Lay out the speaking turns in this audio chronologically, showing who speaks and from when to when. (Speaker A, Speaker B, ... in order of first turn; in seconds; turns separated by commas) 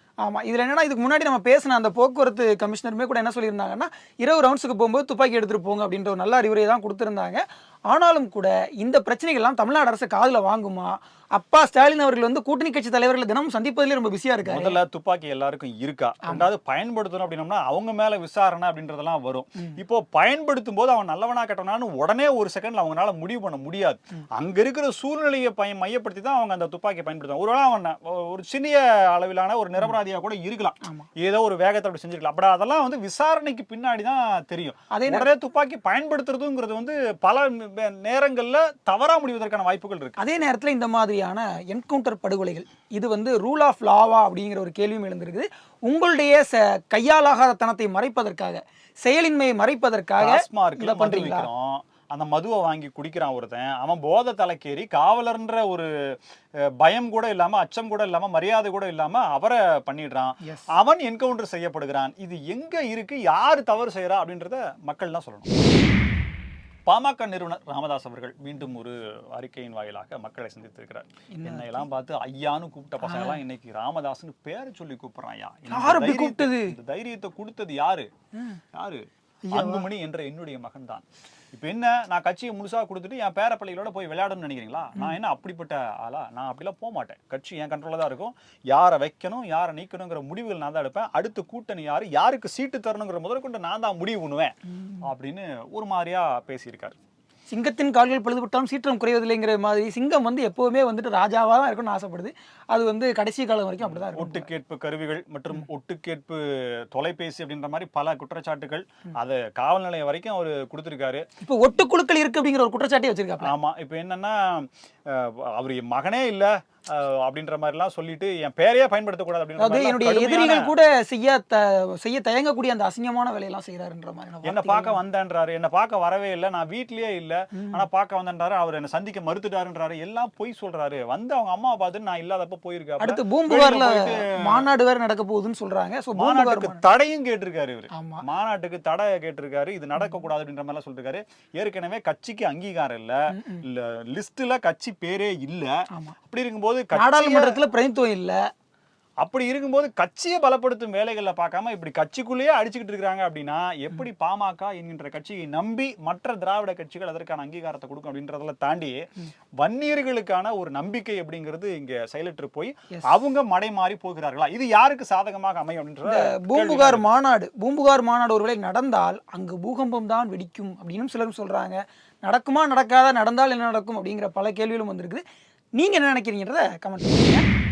Speaker A: 0.2-14.8, Speaker B: 14.4-40.1, Speaker A: 34.9-35.3, Speaker A: 40.2-51.5, Speaker B: 50.2-55.9, Speaker B: 56.8-65.5, Speaker B: 66.9-78.1, Speaker A: 71.3-71.8, Speaker A: 73.0-73.4, Speaker A: 75.7-76.7, Speaker B: 78.7-97.0, Speaker A: 79.4-79.9, Speaker A: 97.5-104.5, Speaker B: 103.8-111.2, Speaker A: 111.4-113.5, Speaker B: 113.4-120.7, Speaker A: 119.6-125.0, Speaker B: 124.4-134.6, Speaker A: 127.6-127.8, Speaker A: 133.0-136.8, Speaker B: 136.1-145.7, Speaker A: 137.9-138.2, Speaker A: 143.3-143.6, Speaker B: 146.3-147.6, Speaker A: 146.9-148.4, Speaker B: 149.2-159.0, Speaker B: 159.6-167.0, Speaker A: 166.0-175.2, Speaker A: 175.8-177.4